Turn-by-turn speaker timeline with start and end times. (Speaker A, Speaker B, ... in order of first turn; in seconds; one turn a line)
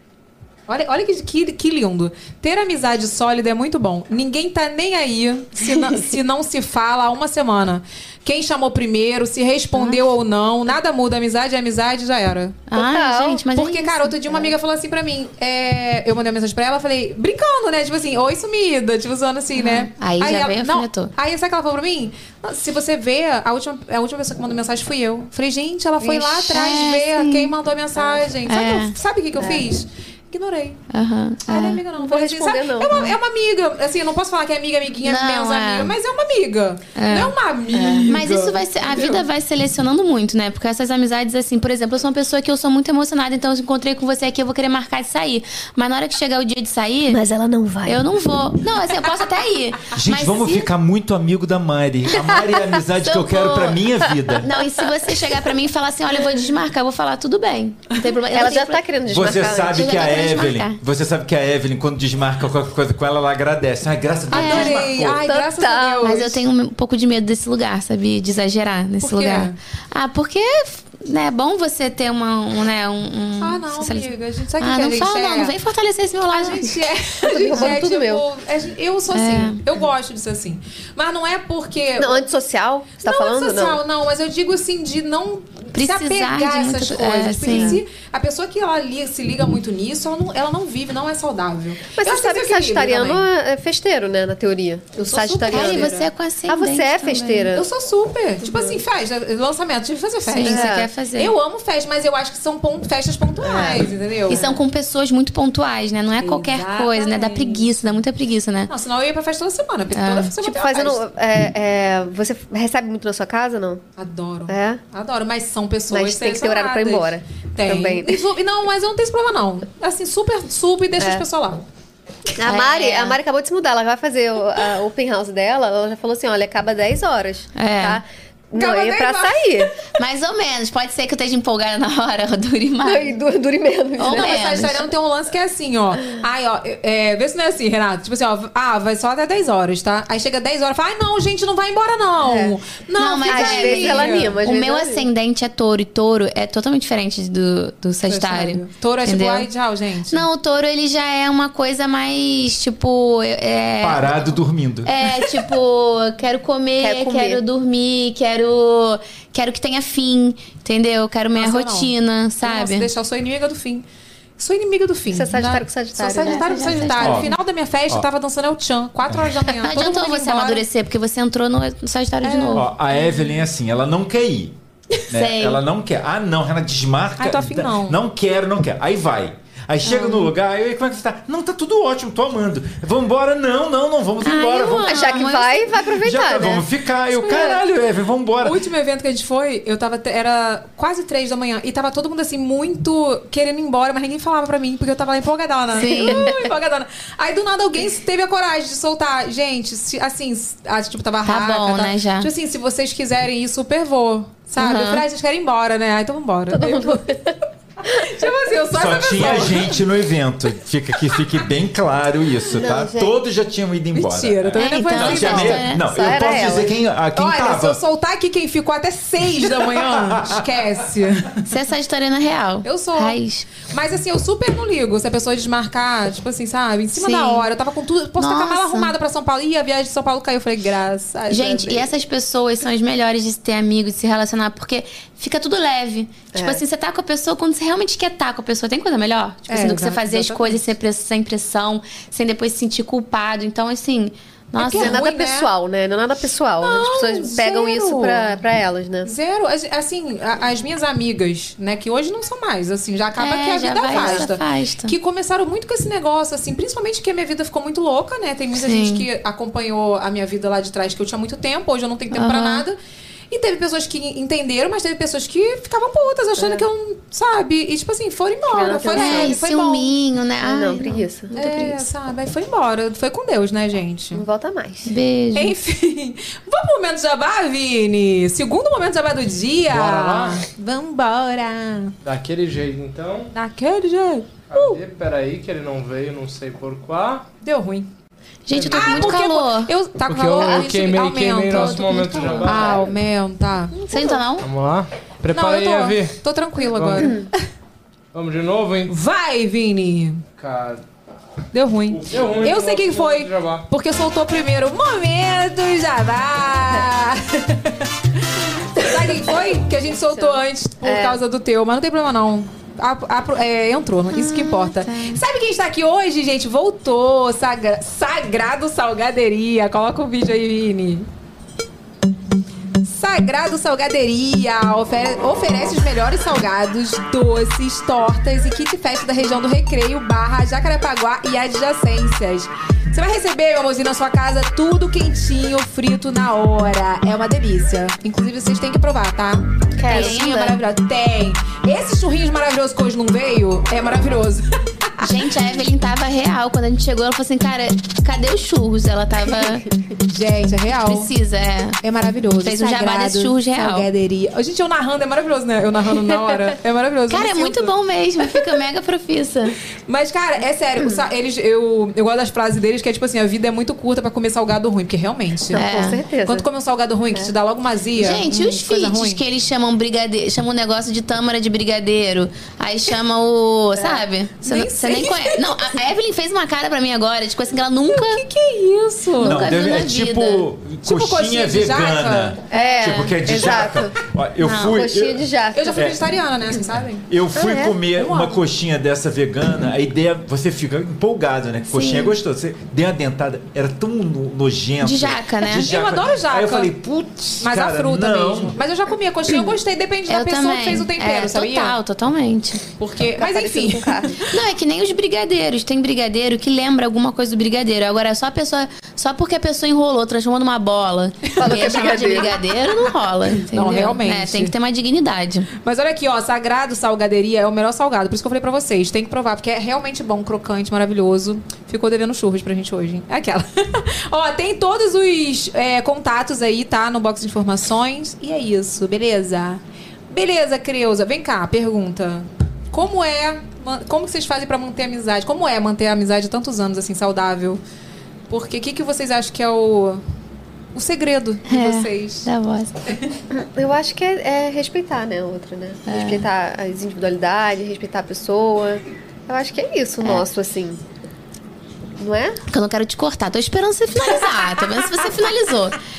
Speaker A: 0.7-12.6
Speaker B: 12.7-14.1
Speaker C: 12.7-13.4
Speaker A: 13.5-30.8
Speaker B: 19.6-21.1
Speaker C: 26.0-26.6
Speaker B: 26.5-27.5
Speaker B: 28.5-28.9
Speaker C: 29.4-29.6
Speaker B: 30.9-31.8
Speaker A: 31.5-39.2
Speaker C: 32.0-33.0
Speaker B: 35.0-35.9
Speaker B: 37.0-37.3
Speaker C: 37.7-38.1
Speaker B: 38.0-47.2
Speaker C: 47.1-48.0
Speaker B: 47.8-50.7
Speaker D: 49.9-54.5
Speaker B: 53.0-53.8
Speaker B: 54.4-58.8
Speaker C: 58.3-60.2
Speaker D: 59.1-65.2
Speaker B: 59.7-60.8
Speaker A: 64.3-66.4
Speaker B: 64.3-64.8
Speaker C: 65.2-66.2
Speaker B: 66.0-76.8
Speaker A: 69.0-69.5
Speaker A: 73.4-75.5
Speaker A: 76.3-82.2
Speaker C: 77.2-78.2
Speaker B: 79.1-79.6
Speaker C: 82.0-83.8
Speaker A: 83.0-93.2
Speaker B: 85.7-87.8
Speaker C: 87.5-87.8
Speaker C: 92.0-95.9
Speaker A: 95.0-96.1
Speaker B: 95.5-97.5
Speaker C: 96.5-97.7
Speaker A: 97.5-104.5
Speaker C: 98.4-98.8
Speaker B: 100.3-101.3
Speaker C: 100.4-100.9
Speaker C: 103.4-104.4
Speaker B: 104.3-108.7
Speaker A: 106.2-108.0
Speaker A: 108.7-111.0
Speaker B: 109.9-110.3
Speaker C: 110.3-113.8
Speaker A: 114.0-121.6
Speaker C: 114.5-114.8
Speaker C: 115.9-118.2
Speaker C: 121.0-121.2
Speaker C: 122.3-129.7
Speaker B: 122.4-123.2
Speaker B: 127.5-128.0
Speaker A: 128.6-129.7
Speaker B: 129.9-133.1
Speaker C: 132.8-134.8
Speaker B: 134.0-134.8
Speaker A: 134.1-144.4
Speaker C: 142.2-142.6
Speaker B: 143.0-149.5
Speaker C: 143.3-145.1
Speaker A: 148.1-150.2
Speaker B: 150.1-162.9
Speaker D: 153.8-155.0
Speaker C: 156.8-157.4
Speaker A: 161.3-161.9
Speaker A: 162.4-163.8
Speaker A: 164.4-170.6
Speaker C: 165.1-166.8
Speaker B: 166.2-167.3
Speaker D: 167.0-167.3
Speaker B: 169.6-172.7
Speaker A: 172.2-172.7
Speaker D: 172.5-174.6
Speaker D: 175.1-185.3
Speaker B: 175.1-175.6
Speaker A: 177.2-178.0
Speaker B: 179.8-180.3
Speaker B: 184.2-185.8
Speaker C: 184.8-186.7
Speaker D: 186.0-188.6
Speaker A: 187.2-187.6
Speaker A: 188.4-207.1
Speaker B: 195.7-196.3
Speaker C: 195.9-196.4
Speaker B: 201.2-202.3
Speaker B: 204.6-205.0
Speaker C: 206.5-207.4
Speaker A: 207.8-209.9
Speaker C: 207.9-208.2
Speaker D: 208.7-217.8
Speaker C: 212.5-213.2
Speaker A: 213.9-215.7
Speaker B: 214.6-215.8
Speaker C: 215.8-216.7
Speaker A: 217.1-221.4
Speaker D: 219.6-220.4
Speaker B: 221.4-223.5
Speaker A: 222.6-231.9
Speaker B: 226.9-227.4
Speaker B: 228.2-228.9
Speaker B: 231.3-245.0
Speaker C: 236.3-236.6
Speaker A: 239.5-240.6
Speaker A: 244.6-245.5
Speaker C: 244.7-249.1
Speaker A: 246.6-248.4
Speaker A: 249.0-262.8
Speaker B: 253.2-254.9
Speaker C: 253.9-254.3
Speaker B: 258.6-259.1
Speaker B: 262.1-262.6
Speaker A: 263.3-269.9
Speaker C: 266.4-266.6
Speaker C: 268.5-269.4
Speaker B: 268.9-271.0
Speaker C: 270.4-271.8
Speaker A: 271.3-274.2
Speaker C: 274.1-274.9
Speaker B: 274.9-275.5
Speaker A: 275.3-281.9
Speaker E: 279.7-280.4
Speaker E: 282.0-283.3
Speaker A: 283.3-284.8
Speaker E: 284.5-287.2
Speaker A: 287.4-287.9
Speaker B: 288.4-289.7
Speaker E: 288.5-289.2
Speaker A: 288.7-293.7
Speaker E: 290.0-292.9
Speaker C: 290.4-290.7
Speaker C: 293.8-294.2
Speaker B: 293.9-294.5
Speaker E: 294.4-297.1
Speaker A: 295.3-297.4
Speaker E: 298.1-298.9
Speaker A: 298.9-300.2
Speaker E: 300.4-300.8
Speaker A: 301.5-321.1
Speaker E: 301.9-303.6
Speaker C: 310.1-311.2
Speaker B: 314.1-315.2
Speaker A: 322.8-345.2
Speaker C: 339.8-340.4
Speaker B: 339.9-340.6
Speaker B: 345.0-349.6
Speaker A: 350.1-351.1
Speaker B: 350.8-351.8
Speaker A: 351.8-357.7
Speaker B: 352.4-353.9
Speaker B: 357.1-359.6
Speaker A: 359.9-365.6
Speaker C: 365.5-366.4
Speaker B: 365.5-366.0
Speaker A: 366.2-369.2
Speaker B: 368.0-378.2
Speaker C: 373.8-374.0
Speaker A: 374.4-375.5
Speaker A: 377.9-379.5
Speaker B: 379.2-380.4
Speaker D: 379.2-386.0
Speaker A: 380.8-382.4
Speaker C: 382.5-384.0
Speaker B: 382.5-383.2
Speaker B: 384.4-384.8
Speaker C: 384.6-385.9
Speaker A: 385.5-387.1
Speaker D: 387.1-398.6
Speaker C: 387.3-387.8
Speaker A: 387.9-388.4
Speaker B: 391.7-392.1
Speaker B: 394.8-395.7
Speaker A: 395.5-396.7
Speaker A: 397.4-401.8
Speaker B: 400.1-402.6
Speaker A: 402.8-404.2
Speaker C: 403.2-404.2
Speaker B: 404.3-415.5
Speaker C: 411.4-412.4
Speaker A: 411.4-412.2
Speaker A: 413.4-414.5
Speaker A: 415.6-437.6
Speaker A: 438.3-440.0
Speaker A: 440.7-442.3
Speaker B: 441.5-442.7
Speaker C: 443.3-450.8
Speaker B: 445.9-446.2
Speaker C: 452.0-452.4
Speaker B: 452.5-455.8